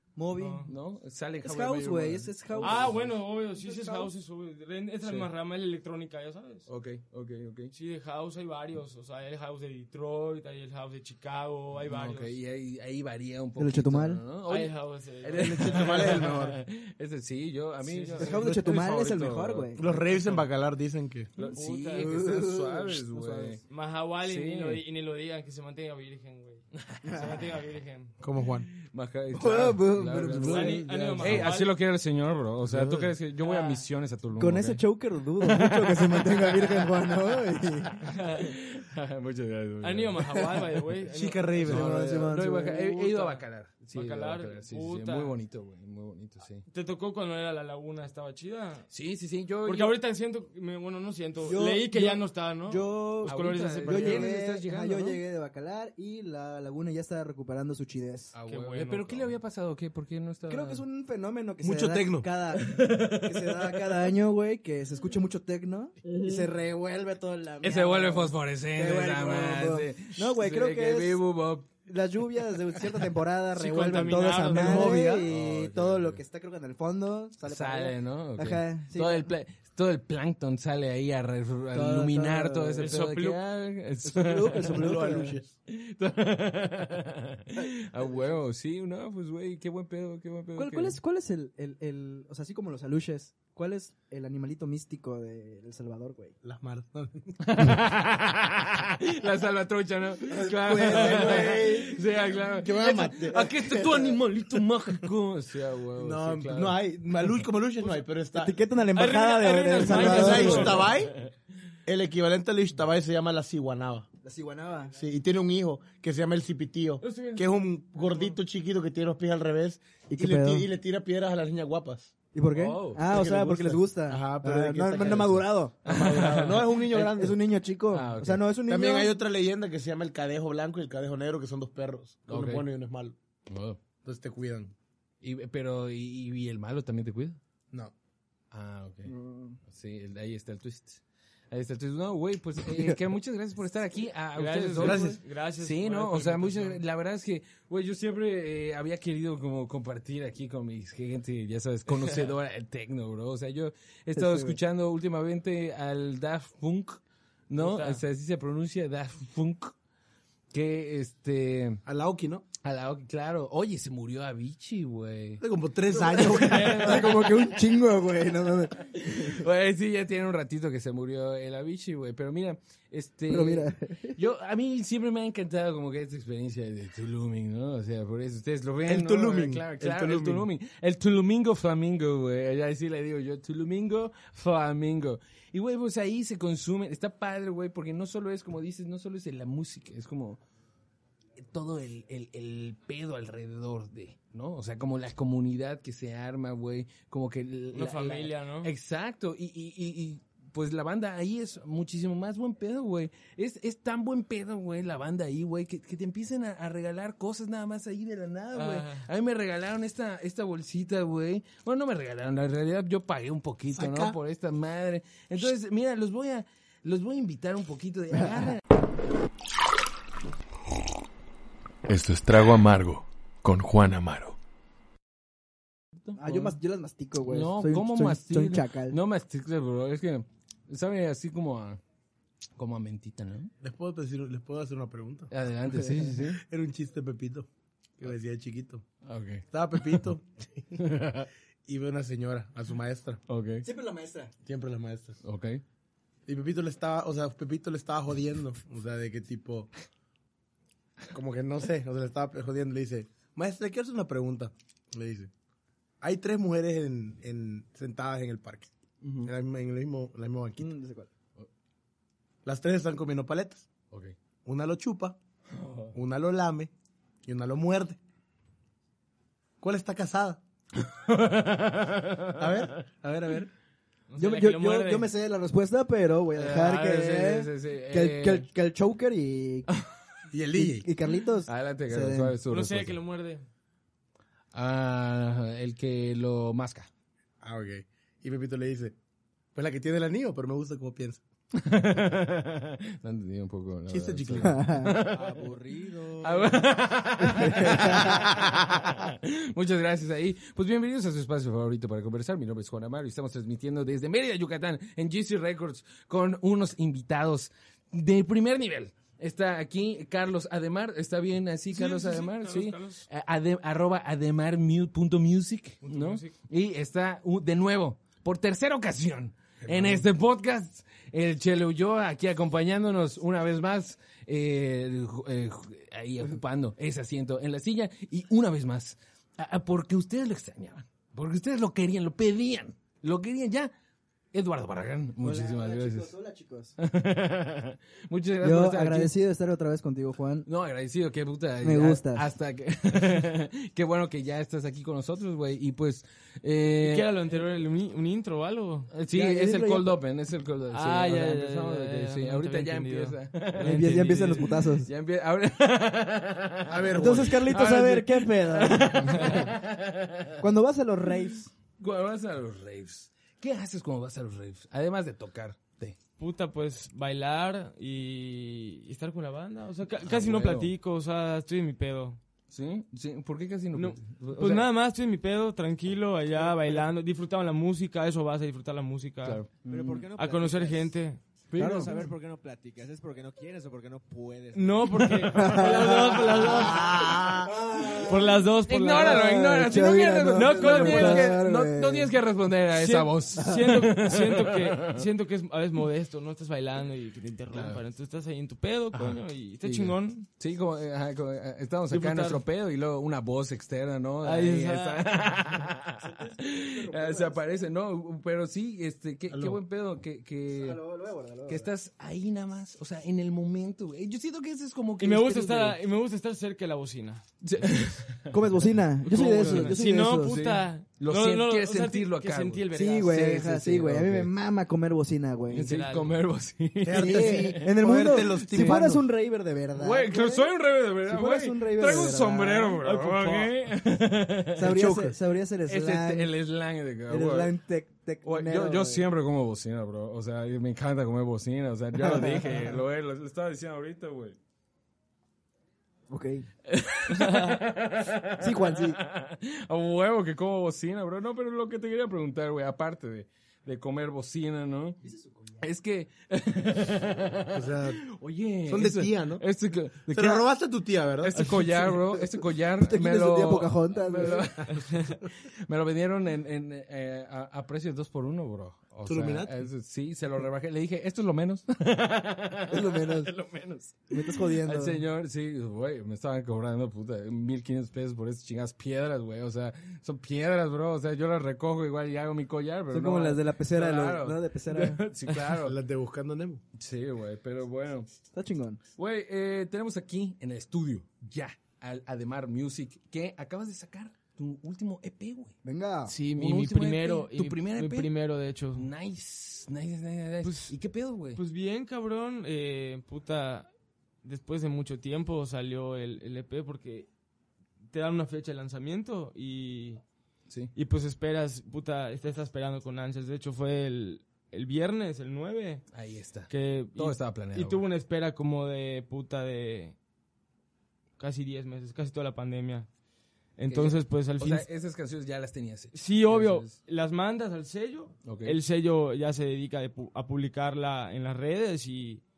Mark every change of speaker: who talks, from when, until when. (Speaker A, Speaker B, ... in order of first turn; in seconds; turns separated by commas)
Speaker A: 0.1-0.7, Speaker B: 0.3-0.7, Speaker C: 0.7-3.1, Speaker A: 1.4-3.1, Speaker B: 2.6-6.7, Speaker A: 3.6-4.1, Speaker C: 5.0-5.3, Speaker C: 6.7-7.7, Speaker B: 7.7-12.3, Speaker C: 11.8-19.7, Speaker A: 13.6-14.2, Speaker B: 14.5-16.2, Speaker D: 15.3-16.6, Speaker B: 17.8-18.4, Speaker A: 18.2-19.8, Speaker D: 19.8-21.3, Speaker B: 21.4-22.1, Speaker C: 21.4-23.6, Speaker A: 21.9-23.6, Speaker B: 23.7-26.6, Speaker C: 24.2-24.8, Speaker C: 26.7-27.2, Speaker A: 27.0-27.4, Speaker B: 27.1-28.1, Speaker D: 28.2-28.7, Speaker C: 28.7-34.8, Speaker A: 29.3-31.4, Speaker B: 30.5-31.7, Speaker D: 31.2-31.4, Speaker D: 32.7-33.1, Speaker B: 33.4-33.8, Speaker A: 34.3-38.0, Speaker C: 35.4-37.4, Speaker B: 38.0-38.5, Speaker C: 38.4-40.6, Speaker B: 39.8-41.7, Speaker D: 41.1-42.0, Speaker A: 41.6-43.3, Speaker C: 41.6-46.6, Speaker B: 43.1-43.4, Speaker B: 43.9-45.3, Speaker B: 46.7-48.9, Speaker C: 48.9-50.0, Speaker B: 49.6-54.3, Speaker A: 51.4-58.3, Speaker C: 53.2-55.2, Speaker C: 58.3-60.8, Speaker B: 58.5-59.3, Speaker A: 60.5-71.2, Speaker D: 61.6-62.3, Speaker C: 62.8-63.0, Speaker C: 67.6-71.7, Speaker A: 71.8-79.3, Speaker B: 73.5-75.1, Speaker D: 74.5-75.3, Speaker C: 74.8-76.2, Speaker C: 77.4-85.0, Speaker A: 81.7-82.9, Speaker B: 82.8-83.4, Speaker A: 84.0-85.4, Speaker D: 84.7-85.5, Speaker C: 85.7-91.0, Speaker A: 87.6-88.3, Speaker A: 90.5-96.3, Speaker D: 96.4-97.7, Speaker C: 97.4-106.8, Speaker A: 100.3-102.0, Speaker D: 100.5-101.9, Speaker D: 102.5-104.1, Speaker D: 106.0-108.6, Speaker A: 108.3-110.9, Speaker B: 108.9-110.9, Speaker D: 109.8-111.2, Speaker C: 110.0-111.3, Speaker D: 111.8-114.1, Speaker A: 114.2-115.0, Speaker D: 115.0-122.1, Speaker B: 117.0-118.4, Speaker A: 120.1-120.7, Speaker A: 122.3-125.8, Speaker C: 122.5-123.0, Speaker D: 123.1-127.4, Speaker C: 125.8-126.8, Speaker A: 126.8-129.2, Speaker C: 127.9-128.4, Speaker D: 128.7-133.2, Speaker C: 132.3-132.7, Speaker C: 133.5-133.8, Speaker D: 134.0-134.7, Speaker C: 135.2-137.4, Speaker C: 138.5-139.1, Speaker A: 139.1-139.6, Speaker C: 139.7-159.7, Speaker B: 144.3-146.8, Speaker D: 144.8-145.2, Speaker B: 151.9-152.3, Speaker A: 154.1-154.6, Speaker B: 157.6-158.0, Speaker C: 160.5-161.8, Speaker D: 161.8-162.4, Speaker C: 162.6-165.4, Speaker D: 165.4-167.0, Speaker A: 165.9-169.3, Speaker C: 166.1-167.4, Speaker B: 166.2-167.0, Speaker C: 168.9-190.4, Speaker A: 173.3-174.2, Speaker D: 178.8-180.5, Speaker C: 191.5-218.6, Speaker B: 197.7-198.7, Speaker B: 208.5-209.0, Speaker D: 213.7-214.2, Speaker A: 218.2-218.4, Speaker E: 221.8-224.3, Speaker C: 226.0-226.6, Speaker A: 226.2-229.0, Speaker C: 227.2-231.8, Speaker C: 232.6-233.5, Speaker D: 233.6-235.3, Speaker C: 235.3-236.4, Speaker D: 236.4-237.5, Speaker D: 238.0-238.8, Speaker C: 239.0-240.0, Speaker D: 239.5-240.7, Speaker C: 240.8-241.3, Speaker D: 241.7-243.2, Speaker C: 243.3-243.7, Speaker A: 243.6-244.3, Speaker D: 244.4-245.2, Speaker C: 245.2-245.6, Speaker D: 246.3-249.7, Speaker D: 251.1-255.3, Speaker D: 256.0-258.7, Speaker C: 259.0-259.3, Speaker D: 259.2-260.7, Speaker A: 260.6-261.1, Speaker D: 262.4-263.7, Speaker D: 264.4-265.2, Speaker C: 265.5-265.9, Speaker D: 265.9-266.7, Speaker D: 267.2-268.0, Speaker D: 269.6-270.4, Speaker C: 270.8-272.6, Speaker D: 272.4-273.5, Speaker B: 274.1-275.1, Speaker A: 274.2-279.7, Speaker C: 276.3-278.5, Speaker C: 279.7-279.9, Speaker D: 280.3-280.9, Speaker A: 280.5-282.4, Speaker C: 281.4-283.0, Speaker B: 282.5-283.4, Speaker C: 284.5-286.9, Speaker D: 287.4-289.0, Speaker D: 289.5-291.2, Speaker C: 291.5-295.4, Speaker D: 293.9-294.6, Speaker A: 294.4-294.9, Speaker F: 295.0-296.8, Speaker C: 296.2-333.7, Speaker A: 297.2-298.2, Speaker B: 311.7-313.0, Speaker B: 315.8-316.3, Speaker D: 319.6-320.1, Speaker C: 334.3-336.1, Speaker A: 335.2-336.7, Speaker C: 336.8-339.1, Speaker A: 338.4-340.5, Speaker C: 340.4-347.1, Speaker A: 341.6-342.3, Speaker B: 346.8-348.9, Speaker C: 348.9-360.4, Speaker A: 349.1-350.0, Speaker B: 350.7-354.5, Speaker A: 353.6-354.9, Speaker D: 356.7-357.5, Speaker A: 357.0-359.5, Speaker A: 360.4-361.5, Speaker C: 361.8-365.9, Speaker B: 366.2-372.2, Speaker C: 370.0-370.7, Speaker C: 372.5-374.7, Speaker B: 373.7-379.4, Speaker C: 379.2-380.0, Speaker F: 379.6-380.9, Speaker B: 380.2-381.2, Speaker C: 381.5-381.9, Speaker A: 381.6-382.1, Speaker F: 381.6-385.1, Speaker B: 384.5-386.9, Speaker C: 384.9-386.8, Speaker A: 385.3-385.9, Speaker D: 386.5-387.5, Speaker A: 387.5-388.3, Speaker B: 388.0-389.2, Speaker C: 388.7-395.1, Speaker A: 388.9-392.1, Speaker B: 390.4-391.4, Speaker B: 392.8-400.3, Speaker A: 393.4-393.7, Speaker C: 397.5-397.8, Speaker C: 398.9-410.8, Speaker B: 401.9-402.4, Speaker B: 404.2-405.1, Speaker A: 406.0-407.6, Speaker D: 409.3-409.6, Speaker A: 410.5-411.7, Speaker C: 411.4-415.8, Speaker B: 415.0-417.2, Speaker C: 417.4-418.4, Speaker A: 418.3-420.4, Speaker B: 419.0-423.1, Speaker C: 419.1-424.3, Speaker A: 422.7-425.7, Speaker C: 425.5-428.9, Speaker B: 425.6-426.1, Speaker D: 426.8-429.0, Speaker A: 426.9-430.5, Speaker C: 429.7-434.8, Speaker A: 431.0-432.8, Speaker B: 432.8-433.5, Speaker A: 434.5-436.3, Speaker D: 434.7-435.1, Speaker C: 435.7-437.5, Speaker A: 437.1-439.0, Speaker C: 438.2-444.4, Speaker A: 442.0-442.8, Speaker A: 446.1-446.4, Speaker C: 446.7-455.0, Speaker B: 447.2-447.5, Speaker A: 448.4-449.0, Speaker A: 455.0-455.6, Speaker C: 455.6-460.5, Speaker D: 457.5-458.0, Speaker D: 458.7-459.4, Speaker D: 460.1-461.5, Speaker C: 461.2-485.7, Speaker B: 461.4-461.9, Speaker A: 462.1-464.5, Speaker B: 464.7-465.1, Speaker D: 469.1-469.6, Speaker A: 472.7-473.3, Speaker A: 474.1-475.0, Speaker A: 482.9-485.0, Speaker D: 485.6-486.6, Speaker C: 486.7-488.1, Speaker A: 488.3-488.8, Speaker C: 489.0-495.5, Speaker A: 495.6-496.1, Speaker B: 496.1-498.9, Speaker C: 496.3-498.1, Speaker C: 498.7-501.4, Speaker B: 500.4-500.7, Speaker B: 501.3-503.7, Speaker B: 504.2-507.1, Speaker B: 507.9-510.0, Speaker B: 510.7-515.8, Speaker C: 515.9-517.8, Speaker B: 516.5-520.0, Speaker B: 521.2-522.9, Speaker B: 523.6-524.7, Speaker C: 523.7-526.7, Speaker B: 525.9-532.2, Speaker C: 528.2-528.6